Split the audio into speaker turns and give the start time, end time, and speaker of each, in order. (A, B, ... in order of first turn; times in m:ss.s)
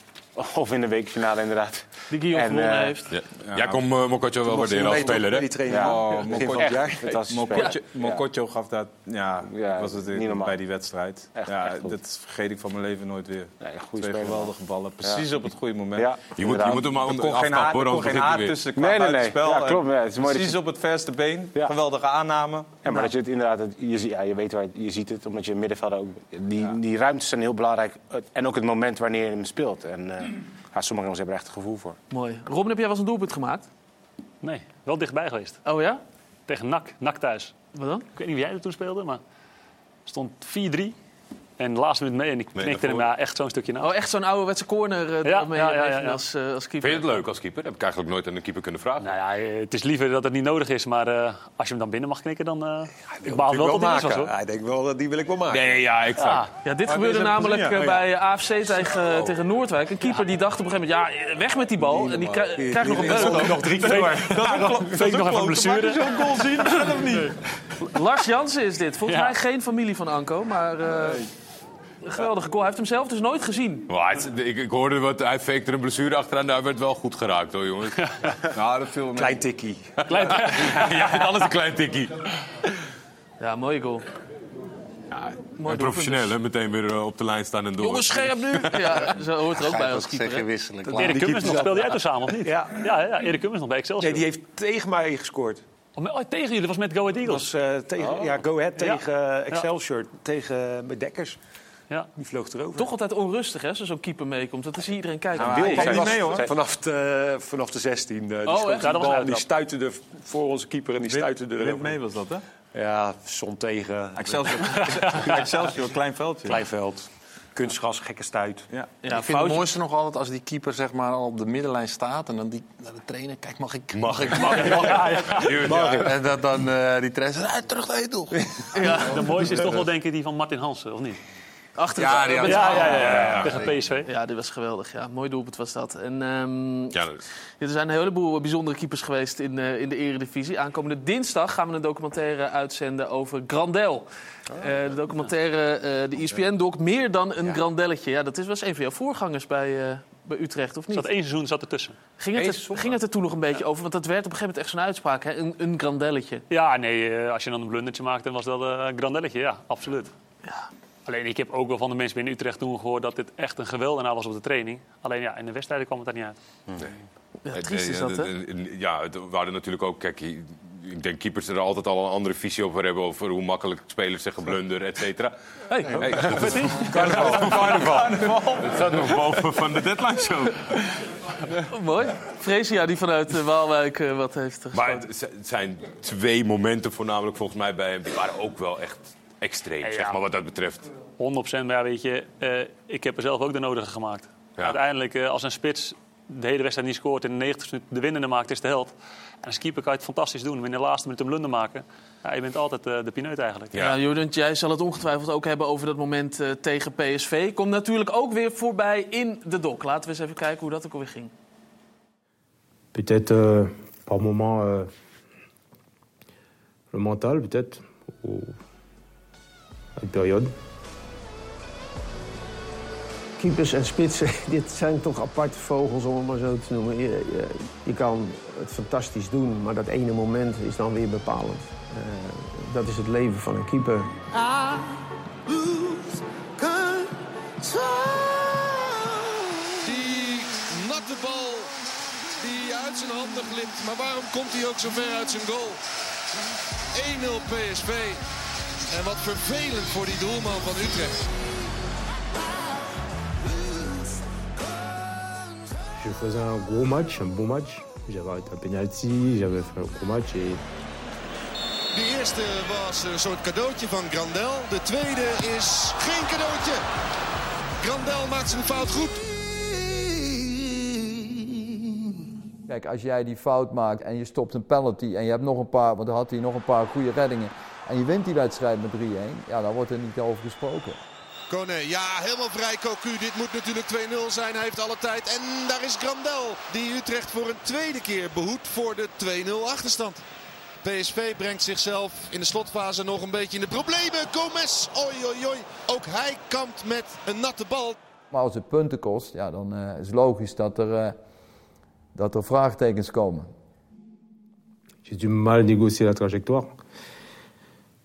0:00.4-0:03.0 A
0:02.1-0:03.1 B
0:03.1-0:05.5 C
0:03.5-0:03.8 D
0:04.4-0:07.2 E
0:05.7-0:08.2 A
0:05.7-0:22.8 D
0:09.4-0:10.6 A
0:11.4-0:12.0 A
0:13.6-0:16.8 A
0:16.4-0:18.6 C
0:18.8-0:20.6 A
0:22.8-0:32.0 A
0:32.1-0:33.7 B
0:34.4-0:35.6 F
0:35.6-0:36.0 B
0:36.5-0:37.6 F
0:37.8-0:38.0 B
0:38.1-0:39.2 F
0:40.1-0:41.0 F
0:41.6-0:43.9 F
0:42.6-0:43.1 C
0:43.8-0:47.2 B
0:45.2-0:46.2 F
0:46.8-0:49.1 C
0:49.0-0:54.3 F
0:53.1-0:55.8 E
0:55.5-0:56.5 C
0:56.2-0:56.5 F
0:56.6-1:03.7 B
0:56.9-0:58.0 D
1:02.0-1:04.8 E
1:02.2-1:07.4 D
1:03.8-1:06.2 F
1:06.4-1:07.1 B
1:07.9-1:11.3 B
1:09.1-1:09.4 F
1:10.9-1:11.2 D
1:12.0-1:13.9 B
1:13.9-1:18.1 C
1:18.5-1:19.4 D
1:19.2-1:19.9 E
1:20.1-1:21.2 F
1:20.2-1:22.2 C
1:23.4-1:24.0 B
1:25.1-1:29.2 C
1:25.6-1:26.3 B
1:27.8-1:30.5 B
1:29.5-1:31.7 G
1:30.9-1:32.8 E
1:31.0-1:34.2 F
1:34.0-1:35.6 E
1:36.0-1:37.5 F
1:37.2-1:41.4 E
1:42.2-1:42.9 E
1:42.8-1:46.1 B
1:45.4-1:46.5 D
1:45.4-1:52.0 E
1:45.4-1:46.4 A
1:48.5-1:48.8 B
1:48.8-1:49.4 F
1:51.0-1:52.4 D
1:52.7-1:55.9 E
1:54.2-1:56.6 D
1:56.4-1:58.7 E
1:58.7-1:59.0 D
1:59.0-1:59.7 B
1:59.1-2:08.9 G
2:03.9-2:06.1 C
2:04.4-2:05.6 F
2:05.7-2:06.0 E
2:08.7-2:09.2 B
2:09.0-2:11.2 F
2:11.8-2:17.0 B
2:12.0-2:13.6 G
2:12.0-2:13.1 E
2:12.3-2:14.1 F
2:13.1-2:13.6 C
2:16.9-2:17.2 C
2:17.6-2:31.1 B
2:30.9-2:32.0 F
2:32.2-2:36.4 B
2:32.3-2:33.0 C
2:36.5-2:40.1 F
2:41.1-2:46.4 F
2:47.5-2:48.3 B
2:47.5-3:00.8 C
2:55.7-2:56.8 B
2:56.4-2:59.3 D
2:56.9-2:58.3 E
3:01.7-3:05.0 B
3:04.7-3:10.9 C
3:09.8-3:10.2 F
3:11.2-3:23.7 F
3:23.8-3:31.3 B
3:32.9-3:34.9 H
3:36.9-3:38.6 H
3:40.0-3:40.6 H
3:43.4-3:54.2 I
3:56.6-3:57.0 I
3:57.9-3:58.3 I
3:59.8-4:01.7 J
4:02.4-4:05.8 J
4:06.9-4:08.2 J
4:08.9-4:11.3 J
4:16.0-4:20.6 H
4:21.9-4:26.8 J
4:27.8-4:29.4 J
4:32.7-4:41.0 K
4:41.5-4:50.2 J
4:50.8-4:58.0 J
4:58.3-5:01.2 K
5:02.2-5:03.5 K
5:05.0-5:06.8 H